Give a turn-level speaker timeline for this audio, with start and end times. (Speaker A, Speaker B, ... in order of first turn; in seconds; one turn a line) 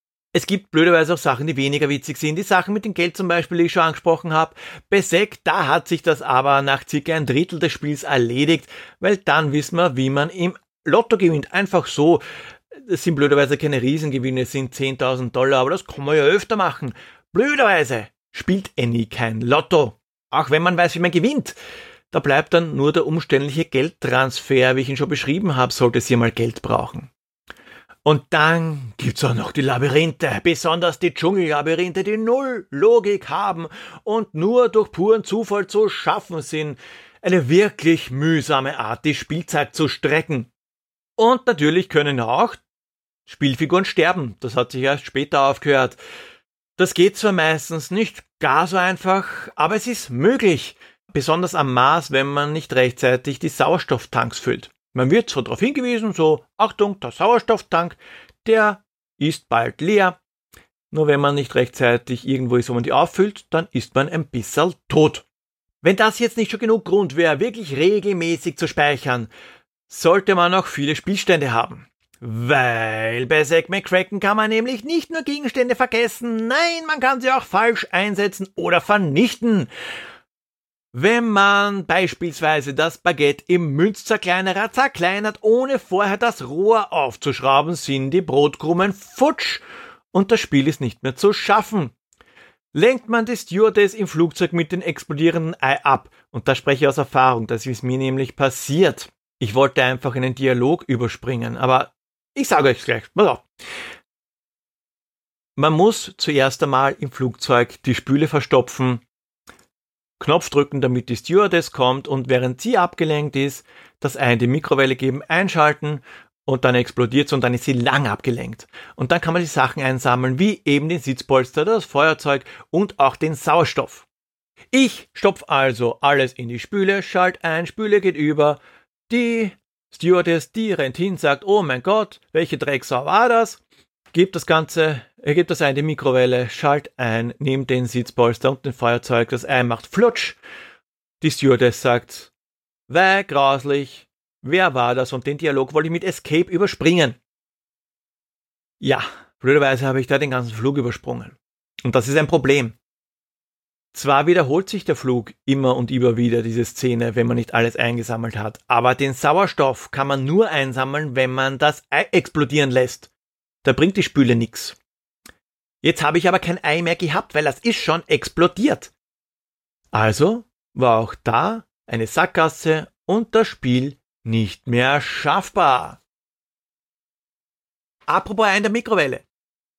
Speaker A: 0.3-12.2
Speaker A: 12.7-21.6
Speaker A: 22.1-27.1
Speaker A: 28.1-40.5
Speaker A: 41.2-42.6
Speaker A: 43.3-46.0
Speaker A: 46.8-60.2
Speaker A: 60.9-65.3
Speaker A: 65.8-69.3
Speaker A: 69.9-79.7
Speaker A: 80.9-91.9
Speaker A: 92.7-103.5
Speaker A: 105.6-109.0
Speaker A: 110.2-124.1
Speaker A: 124.7-133.6
Speaker A: 134.1-140.4
Speaker A: 141.2-142.3
Speaker A: 142.9-147.2
Speaker A: 148.8-152.8
Speaker A: 153.9-163.1
Speaker A: 163.6-164.8
Speaker A: 165.8-168.9
Speaker A: 169.9-176.0
Speaker A: 178.1-179.2